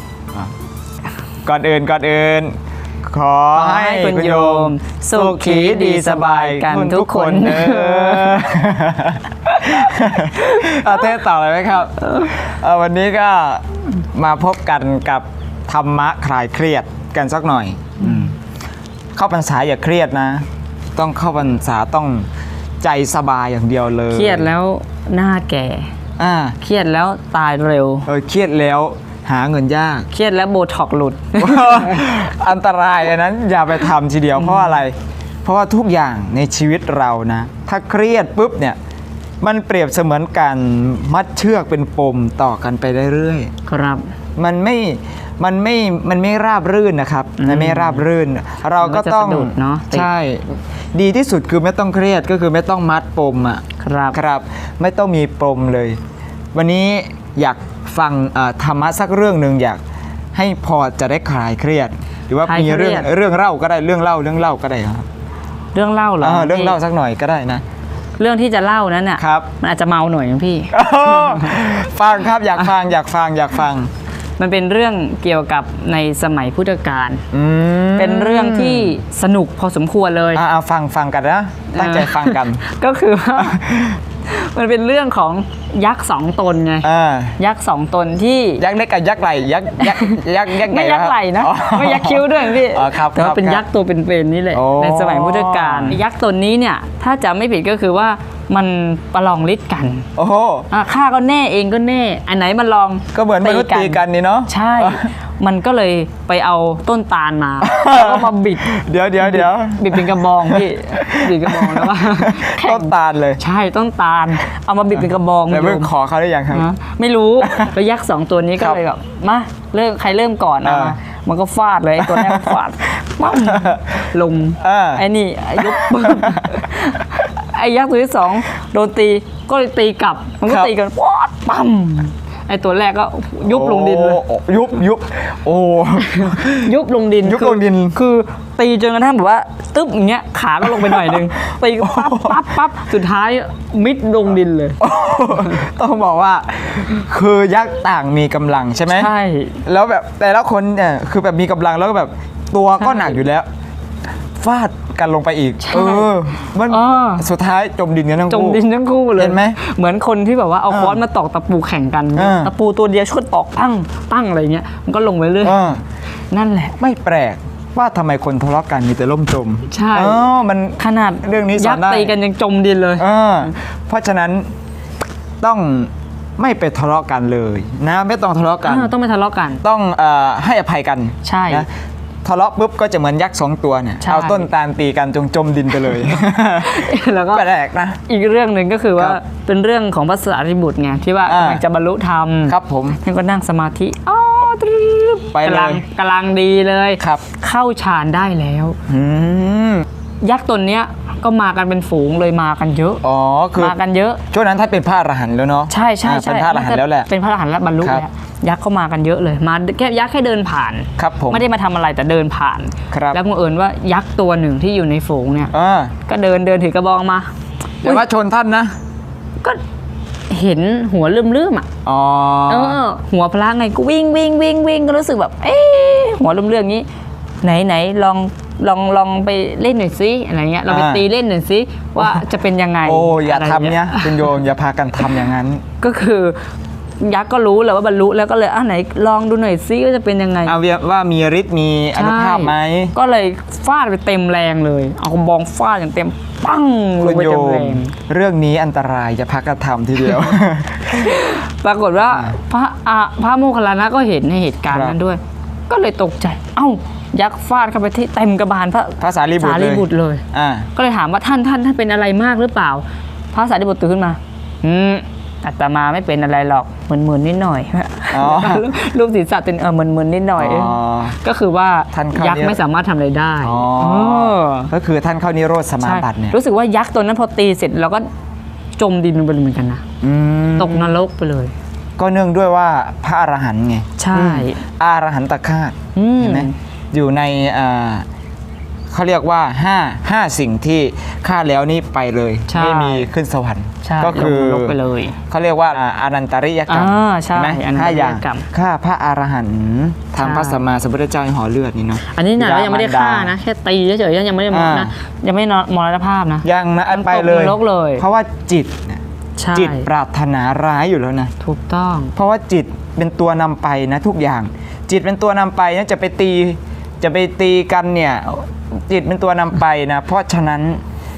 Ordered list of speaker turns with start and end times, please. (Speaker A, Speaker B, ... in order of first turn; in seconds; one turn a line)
Speaker A: 1.4-18.4
Speaker B: 3.5-8.5
Speaker B: 9.5-11.1
Speaker B: 12.0-12.3
Speaker B: 18.0-18.3
Speaker A: 19.1-22.3
Speaker A: 22.8-24.5
Speaker B: 24.1-25.9
Speaker A: 26.2-26.6
Speaker B: 26.6-28.1
Speaker A: 28.1-30.1
Speaker B: 30.1-32.0
Speaker A: 31.4-38.8
Speaker B: 34.4-34.8
Speaker A: 39.4-43.5
Speaker B: 43.7-44.1
Speaker A: 44.4-56.0
Speaker B: 47.4-48.0
Speaker B: 48.8-50.1
Speaker B: 53.8-54.2
Speaker A: 56.5-59.8
Speaker A: 60.3-65.1
Speaker B: 62.4-63.1
Speaker B: 65.7-66.8
Speaker A: 66.2-67.6
Speaker B: 68.2-71.5
Speaker A: 69.2-69.5
Speaker A: 70.7-73.9
Speaker B: 74.4-77.2
Speaker A: 77.3-79.0
Speaker B: 78.0-80.4
Speaker A: 80.3-82.6
Speaker B: 81.7-86.9
Speaker A: 83.4-84.0
Speaker A: 86.8-87.4
Speaker B: 87.4-88.6
Speaker A: 88.6-93.6
Speaker B: 89.8-100.1
Speaker A: 94.5-96.0
Speaker A: 100.2-100.7
Speaker B: 100.7-115.9
Speaker A: 103.1-105.0
Speaker A: 107.6-113.4
Speaker A: 115.5-116.7
Speaker B: 116.5-134.2
Speaker A: 117.4-117.7
Speaker A: 120.6-121.0
Speaker A: 122.0-122.6
Speaker A: 123.3-123.8
Speaker A: 124.6-125.0
Speaker A: 125.6-126.5
Speaker A: 130.5-130.7
Speaker A: 133.4-138.0
Speaker B: 136.0-144.8
Speaker A: 140.6-142.6
Speaker A: 144.8-149.1
Speaker B: 145.3-145.7
Speaker B: 148.9-149.6
Speaker A: 149.7-153.5
Speaker B: 152.8-153.2
Speaker A: 154.4-158.6
Speaker B: 155.6-156.1
Speaker B: 156.7-157.3
Speaker B: 158.3-165.6
Speaker A: 159.2-159.6
Speaker A: 160.7-161.0
Speaker A: 162.1-162.5
Speaker A: 165.4-165.8
Speaker B: 166.3-166.8
Speaker A: 166.8-172.1
Speaker B: 169.7-170.3
Speaker B: 170.8-173.1
Speaker A: 173.0-174.5
Speaker A: 175.4-178.9
Speaker B: 178.6-179.6
Speaker A: 179.6-181.7
Speaker B: 181.2-181.7
Speaker A: 182.2-188.0
Speaker B: 184.0-184.5
Speaker B: 186.6-187.5
Speaker B: 188.1-198.8
Speaker A: 191.3-191.6
Speaker A: 192.5-193.0
Speaker A: 195.3-195.8
Speaker A: 198.9-199.8
Speaker B: 200.2-203.0
Speaker A: 203.0-203.8
Speaker B: 203.6-204.2
Speaker A: 204.3-207.1
Speaker B: 205.7-215.5
Speaker A: 211.0-211.4
Speaker A: 212.9-213.2
Speaker A: 215.5-215.9
Speaker B: 216.1-217.3
Speaker A: 217.8-218.7
Speaker B: 220.3-221.7
Speaker A: 221.8-222.8
Speaker B: 222.5-226.9
Speaker B: 227.4-234.3
Speaker A: 230.7-231.1
Speaker A: 232.8-235.6
Speaker B: 235.8-236.4
Speaker B: 237.0-240.6
Speaker A: 240.4-242.9
Speaker B: 241.9-247.9
Speaker A: 247.0-251.2
Speaker B: 250.9-260.2
Speaker A: 252.1-252.3
Speaker A: 254.7-255.0
Speaker A: 259.0-260.7
Speaker B: 260.8-274.7
Speaker A: 268.1-268.7
Speaker A: 270.4-271.1
Speaker A: 271.9-272.6
Speaker A: 273.4-276.4
Speaker B: 275.8-278.1
Speaker B: 278.8-279.8
Speaker A: 280.0-280.9
Speaker B: 280.6-281.5
Speaker A: 282.0-288.1
Speaker B: 284.0-284.6
Speaker B: 285.9-286.5
Speaker A: 288.9-294.8
Speaker B: 292.5-293.1
Speaker B: 293.8-295.2
Speaker A: 295.3-303.3
Speaker B: 296.7-298.5
Speaker B: 300.2-300.6
Speaker B: 302.1-308.1
Speaker A: 304.5-304.9
Speaker A: 306.4-309.0
Speaker B: 309.4-309.9
Speaker A: 309.5-311.3
Speaker B: 311.4-312.1
Speaker A: 312.1-320.8